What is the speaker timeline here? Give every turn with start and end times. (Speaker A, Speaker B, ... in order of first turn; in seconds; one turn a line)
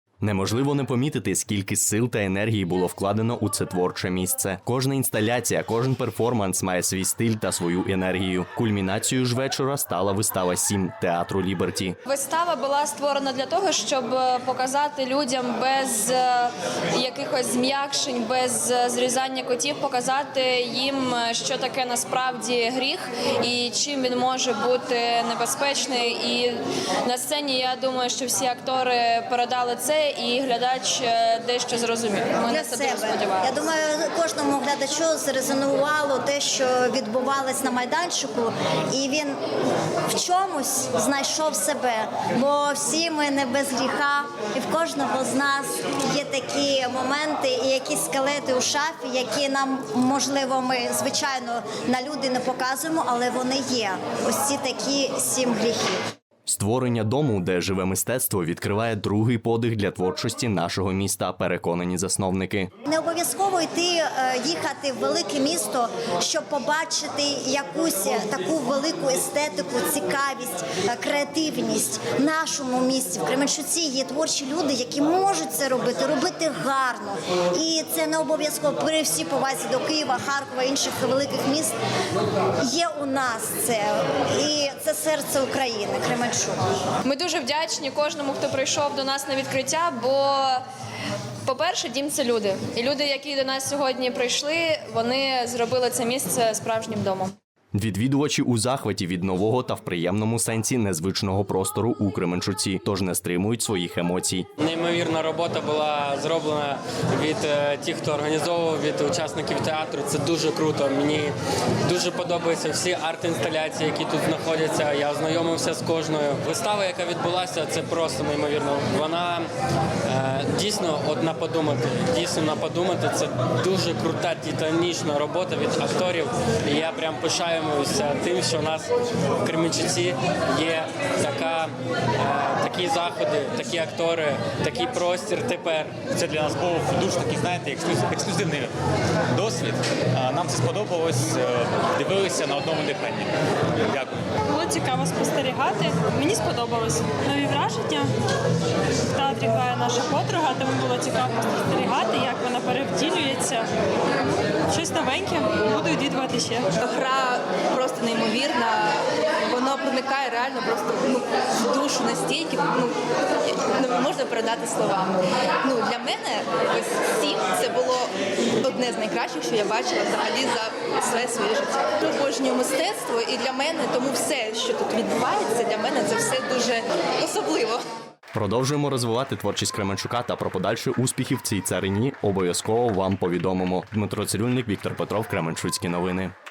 Speaker A: 0.2-11.9
Speaker B: 12.1-33.6
Speaker C: 32.4-39.4
Speaker C: 40.1-56.0
Speaker A: 56.5-62.7
Speaker C: 62.9-81.8
Speaker C: 82.6-86.6
Speaker B: 87.0-90.6
Speaker B: 91.5-97.3
Speaker A: 97.8-104.5
Speaker D: 104.6-119.5
Speaker D: 120.0-128.9
Speaker D: 129.4-136.1
Speaker E: 136.1-138.8
Speaker E: 139.3-143.3
Speaker E: 143.9-144.3
Speaker F: 144.5-148.1
Speaker F: 149.1-153.7
Speaker F: 154.7-156.7
Speaker G: 156.8-177.8
Speaker A: 178.3-186.3